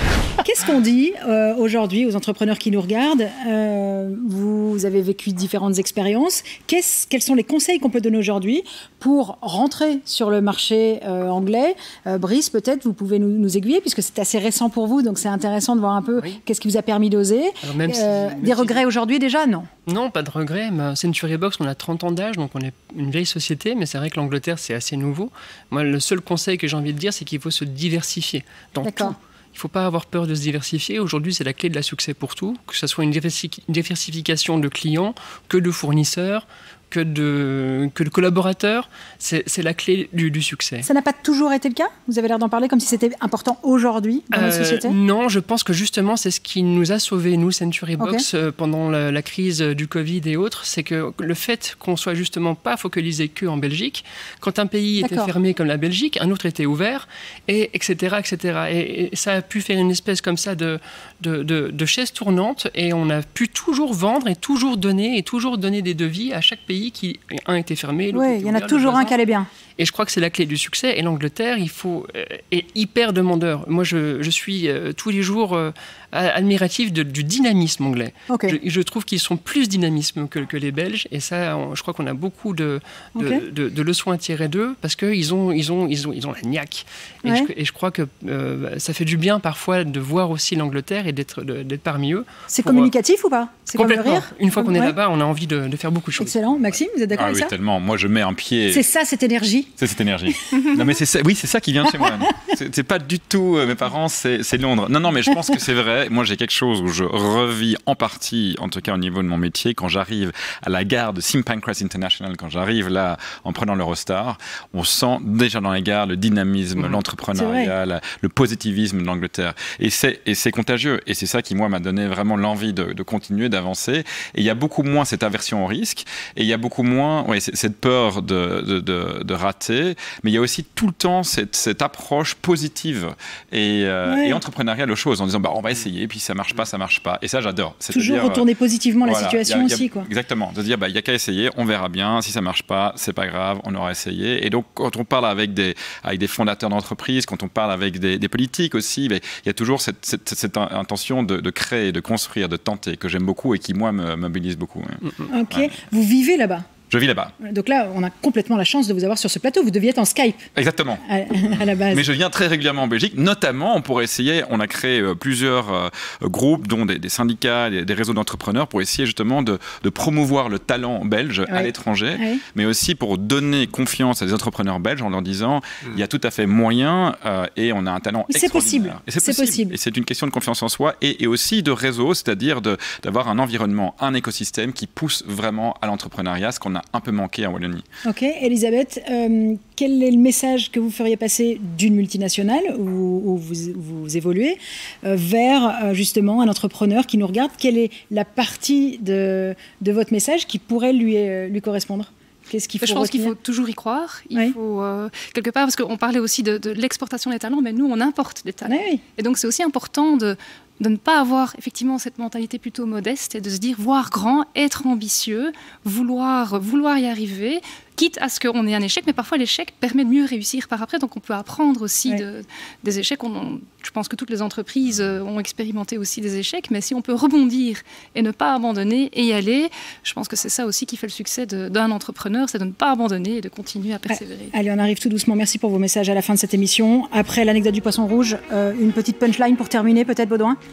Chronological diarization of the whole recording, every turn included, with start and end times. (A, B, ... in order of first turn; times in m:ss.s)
0:00.4-0:19.7 A
0:17.6-0:18.8 B
0:19.8-0:40.9 B
0:28.8-0:29.2 A
0:40.8-0:45.0 A
0:44.3-1:09.1 B
0:48.0-0:48.2 A
0:55.0-0:55.3 A
1:08.1-1:09.5 A
1:09.8-1:32.9 B
1:18.3-1:18.6 A
1:23.2-1:23.4 A
1:27.2-1:27.5 A
1:32.5-1:35.0 A
1:33.7-1:36.4 B
1:36.2-1:37.5 A
1:37.1-1:38.8 C
1:38.7-1:39.7 A
1:39.8-2:18.4 C
1:42.0-1:42.3 A
1:57.3-1:57.7 A
2:14.0-2:14.4 A
2:17.9-2:20.1 A
2:19.0-2:35.8 C
2:35.3-2:36.7 A
2:36.9-2:37.3 C
2:37.4-2:40.5 A
2:40.6-3:07.8 C
2:41.0-2:42.0 A
2:51.5-2:52.4 A
2:58.3-2:59.7 A
3:08.0-3:23.3 A
3:22.8-3:54.5 D
3:28.6-3:29.0 A
3:54.1-4:00.6 A